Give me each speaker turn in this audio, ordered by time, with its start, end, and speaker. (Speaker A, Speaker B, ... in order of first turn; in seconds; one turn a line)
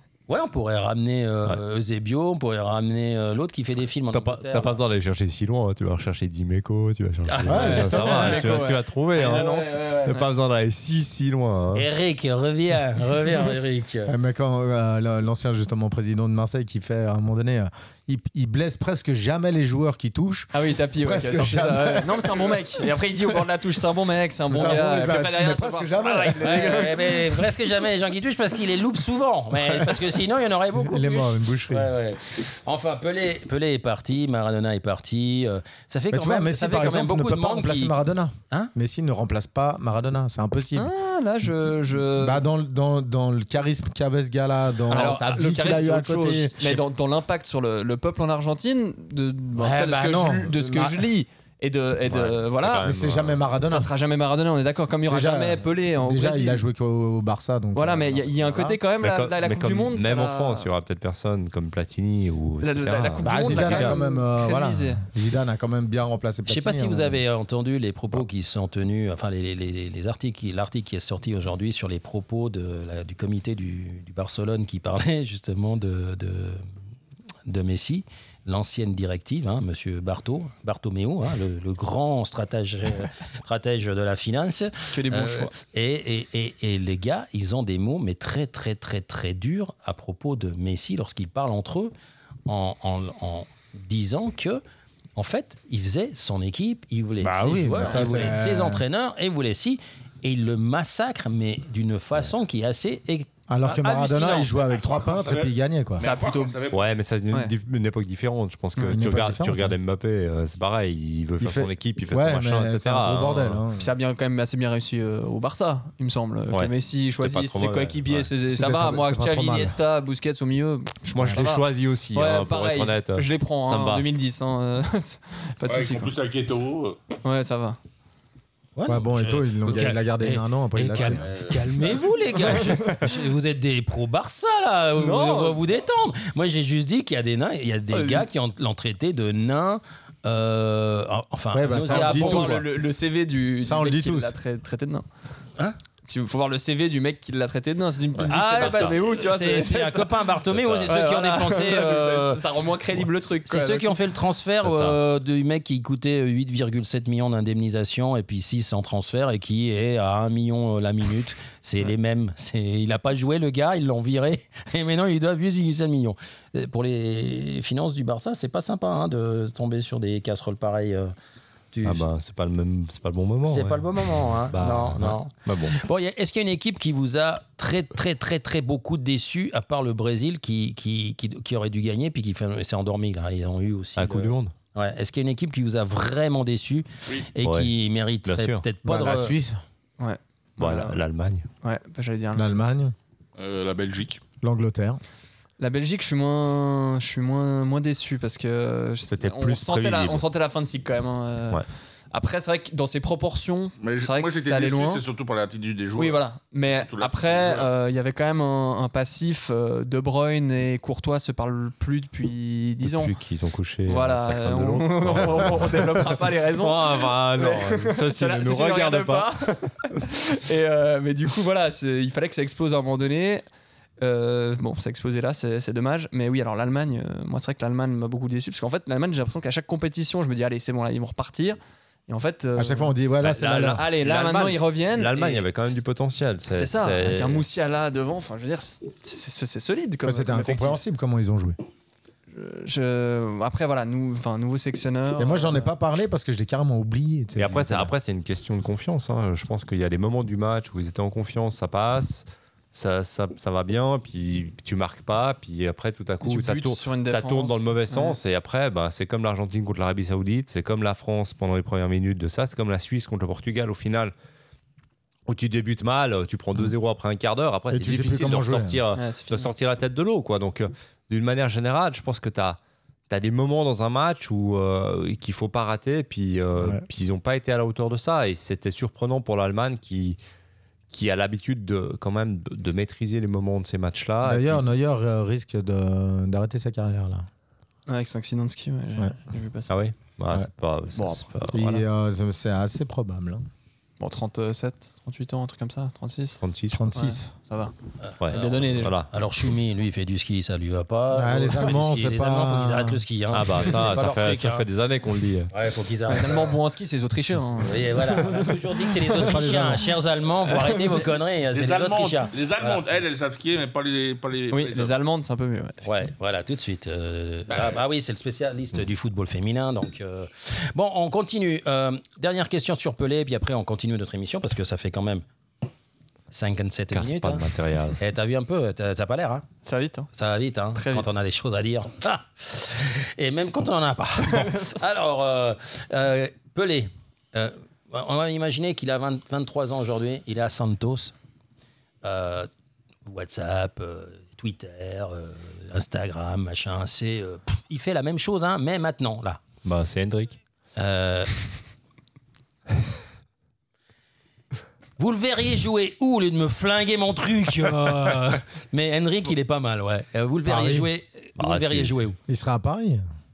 Speaker A: 0.3-4.8
Speaker B: 4.1-11.8
Speaker A: 7.3-10.1
Speaker C: 7.4-8.3
Speaker D: 7.6-10.2
Speaker A: 11.7-14.1
Speaker C: 14.1-22.6
Speaker D: 20.5-27.1
Speaker C: 24.5-27.3
Speaker A: 26.4-38.0
Speaker C: 30.8-31.9
Speaker C: 36.1-40.9
Speaker D: 40.7-42.4
Speaker C: 42.1-46.6
Speaker D: 44.9-52.9
Speaker A: 44.9-45.2
Speaker C: 49.6-51.0
Speaker B: 52.0-53.4
Speaker C: 52.8-53.9
Speaker D: 53.6-56.6
Speaker C: 55.1-58.8
Speaker D: 57.7-60.7
Speaker B: 59.0-64.0
Speaker D: 62.6-65.0
Speaker C: 63.2-67.2
Speaker A: 66.5-76.6
Speaker A: 77.5-91.9
Speaker D: 84.9-85.5
Speaker A: 92.5-94.6
Speaker A: 95.2-104.4
Speaker C: 97.2-98.8
Speaker C: 103.5-106.1
Speaker E: 104.7-106.9
Speaker D: 106.0-106.6
Speaker B: 106.7-113.6
Speaker C: 108.8-109.8
Speaker C: 111.4-113.9
Speaker D: 113.8-126.1
Speaker B: 116.5-118.3
Speaker C: 118.5-119.8
Speaker B: 121.1-124.0
Speaker E: 125.6-127.0
Speaker D: 127.2-127.8
Speaker A: 128.8-142.6
Speaker C: 128.8-131.3
Speaker E: 131.0-132.1
Speaker D: 132.6-132.9
Speaker D: 135.0-135.6
Speaker D: 137.9-138.2
Speaker C: 141.5-142.7
Speaker D: 141.8-145.1
Speaker C: 143.6-144.3
Speaker D: 146.1-150.1
Speaker B: 148.2-148.9
Speaker A: 148.3-152.4
Speaker B: 150.5-150.9
Speaker D: 150.8-153.9
Speaker A: 153.3-171.1
Speaker B: 154.6-155.0
Speaker A: 171.7-172.1
Speaker B: 171.8-175.8
Speaker A: 173.4-189.3
Speaker B: 184.0-184.5
Speaker B: 187.4-187.7
Speaker B: 188.2-188.6
Speaker C: 188.8-189.6
Speaker D: 190.0-191.0
Speaker B: 190.6-191.5
Speaker D: 191.6-192.7
Speaker C: 192.3-192.9
Speaker E: 193.4-194.2
Speaker C: 194.4-195.0
Speaker D: 195.6-205.0
Speaker B: 199.1-200.2
Speaker E: 203.8-207.7
Speaker D: 205.9-213.1
Speaker B: 212.8-219.7
Speaker D: 213.8-223.4
Speaker D: 224.0-232.9
Speaker C: 232.5-233.8
Speaker B: 233.2-237.4
Speaker D: 233.5-235.7
Speaker D: 236.5-240.8
Speaker C: 240.0-241.6
Speaker D: 242.3-245.7
Speaker C: 245.2-247.9
Speaker B: 247.3-264.1
Speaker D: 256.2-258.2
Speaker B: 265.3-280.2
Speaker C: 267.7-268.8
Speaker D: 268.9-269.5
Speaker C: 276.6-276.8
Speaker B: 280.9-284.6
Speaker C: 284.2-287.2
Speaker D: 287.9-289.7
Speaker B: 289.7-291.7
Speaker D: 290.9-291.8
Speaker C: 291.5-293.4
Speaker D: 294.0-296.4
Speaker B: 296.4-296.9
Speaker C: 296.7-297.3
Speaker D: 296.9-297.7
Speaker A: 298.0-304.6
Speaker B: 298.2-299.1
Speaker D: 298.3-298.9
Speaker C: 301.1-303.0
Speaker B: 303.3-305.5
Speaker A: 305.5-306.5
Speaker D: 306.1-309.5
Speaker A: 307.6-312.8
Speaker C: 309.1-309.9
Speaker D: 310.5-311.0
Speaker E: 311.5-314.9
Speaker D: 314.5-316.1
Speaker A: 315.8-325.2
Speaker E: 317.5-317.8
Speaker A: 326.3-327.4
Speaker B: 326.9-328.0
Speaker A: 328.0-329.5
Speaker D: 329.6-330.1
Speaker A: 330.1-341.1
Speaker D: 330.7-331.1
Speaker D: 334.2-334.7
Speaker A: 342.0-342.5
Speaker A: 343.1-349.4
Speaker B: 349.6-350.4
Speaker A: 350.8-351.3
Speaker A: 355.0-362.2
Speaker C: 360.4-360.9
Speaker B: 361.4-361.9
Speaker C: 362.3-363.0